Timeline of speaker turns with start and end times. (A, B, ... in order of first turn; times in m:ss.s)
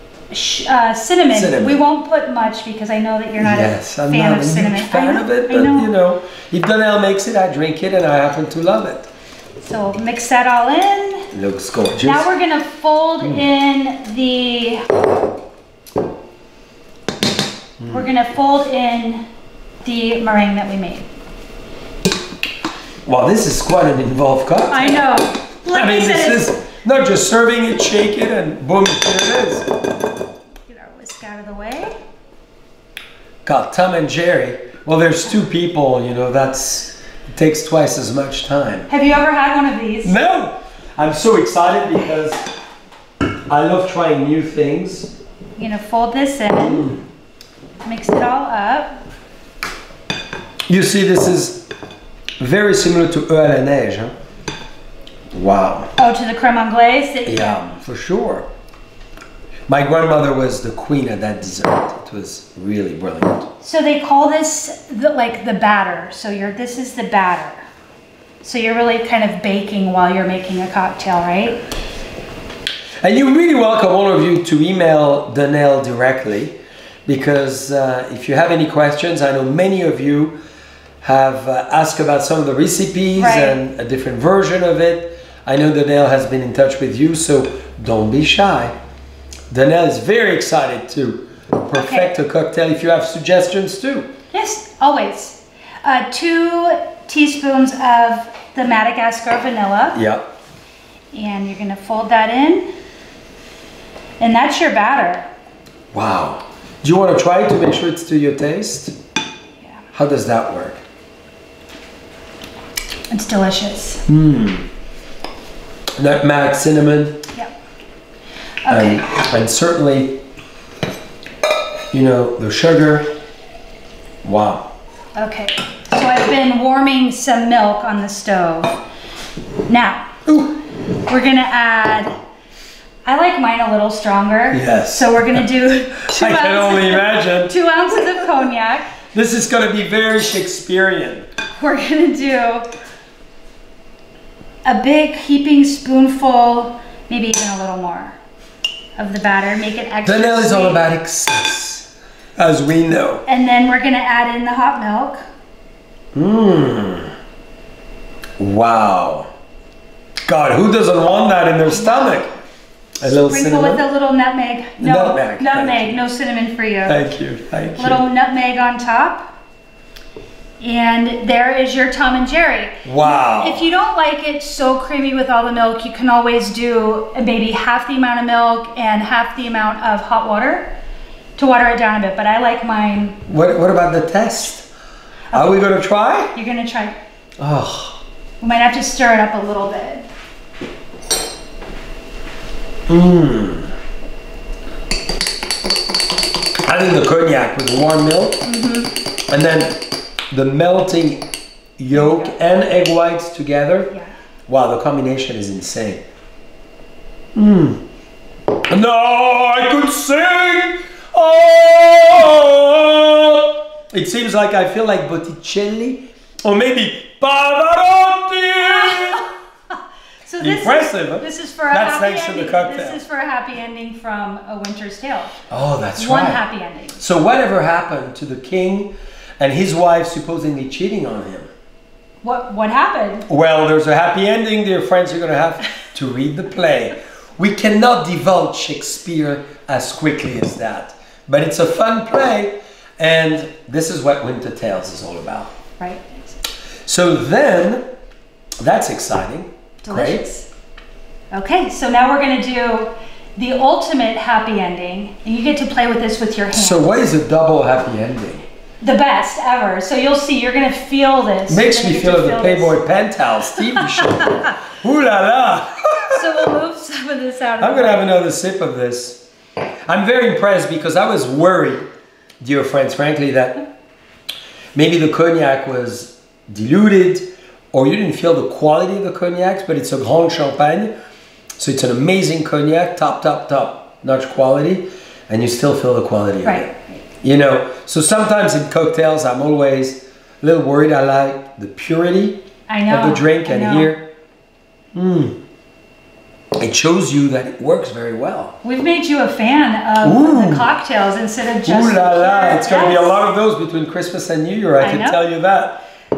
0:00.3-0:05.9 A
0:01.3-0:01.8 B
0:03.4-0:09.1 B
0:09.6-0:11.3 A
0:11.3-0:12.3 B
0:12.0-0:15.0 A
0:17.8-0:18.1 B
0:17.9-0:19.2 A
0:19.8-0:21.0 A
0:23.0-0:25.0 B
0:24.7-0:26.5 A
0:25.7-0:29.7 B
0:30.7-0:31.9 A
0:33.4-0:38.9 B
0:38.9-0:40.1 A
0:40.0-0:42.4 B
0:43.5-0:45.1 B
0:45.6-0:46.9 A
0:46.6-0:47.0 B
0:47.8-0:49.0 A
0:50.7-0:51.7 B
0:52.4-0:54.1 B
0:55.3-0:55.9 B
0:56.0-0:57.6 A
0:57.2-0:58.5 B
0:59.7-1:03.5 B
1:03.6-1:07.6 A
1:08.4-1:11.6 A
1:13.0-1:16.6 B
1:17.1-1:20.4 B
1:21.0-1:28.7 B
1:23.2-1:23.6 A
1:29.5-1:34.1 B
1:31.7-1:32.1 A
1:34.3-1:40.0 A
1:39.9-1:40.3 B
1:41.1-1:42.7 A
1:44.2-1:45.3 A
1:45.9-1:49.0 B
1:49.9-1:50.8 B
1:53.1-1:54.0 A
1:54.1-1:54.7 B
1:56.0-1:57.2 B
1:58.6-1:59.0 A
1:58.7-2:00.2 B
2:01.9-2:03.1 B
2:04.2-2:04.7 B
2:05.1-2:08.8 A
2:09.7-2:10.1 A
2:10.2-2:10.6 B
2:11.1-2:12.1 A
2:13.0-2:18.9 A
2:14.5-2:15.4 B
2:16.0-2:17.5 B
2:19.1-2:21.2 B
2:21.6-2:22.7 A
2:24.6-2:28.2 A
2:29.0-2:30.8 A
2:30.0-2:33.2 B
2:33.2-2:35.2 A
2:36.1-2:37.1 B
2:38.4-2:39.3 B
2:40.3-2:42.3 B
2:41.7-2:42.3 A
2:43.0-2:43.8 B
2:43.0-2:47.0 A
2:44.8-2:46.0 B
2:46.8-2:48.0 B
2:47.8-2:49.3 A
2:50.6-3:00.7 A
2:52.8-2:53.6 B
3:01.4-3:03.2 A
3:03.2-3:04.7 B
3:05.3-3:05.6 A
3:05.3-3:06.3 B
3:06.3-3:07.0 A
3:07.4-3:08.0 B
3:08.4-3:10.0 A
3:12.9-3:13.7 B
3:16.6-3:18.4 B
3:18.4-3:18.9 A
3:19.3-3:21.2 B
3:21.8-3:23.9 B
3:21.9-3:22.3 A
3:24.5-3:26.0 B
3:27.3-3:27.8 B
3:28.7-3:39.3 B
3:38.6-3:39.3 A
3:40.2-3:45.3 A
3:40.4-3:43.0 B
3:45.5-3:46.4 B
3:46.0-3:47.0 A
3:47.0-3:51.5 B
3:52.2-3:53.2 A
3:53.3-4:05.5 B
4:05.8-4:06.4 A
4:06.9-4:07.8 B
4:08.6-4:10.2 B
4:09.8-4:10.5 A
4:11.3-4:17.0 A
4:16.5-4:18.5 B
4:18.8-4:22.8 A
4:21.5-4:26.5 B
4:23.8-4:24.2 A
4:26.1-4:28.1 A
4:27.6-4:29.2 B
4:29.9-4:31.8 B
4:32.4-4:33.6 B
4:34.7-4:40.9 B
4:41.6-4:46.7 B
4:46.4-4:47.0 A
4:47.2-4:54.0 B
4:52.7-4:53.9 A
4:54.9-4:55.4 B
4:56.6-4:58.5 B
4:58.6-5:03.2 A
5:00.0-5:00.6 B
5:01.6-5:05.8 B
5:04.8-5:05.2 A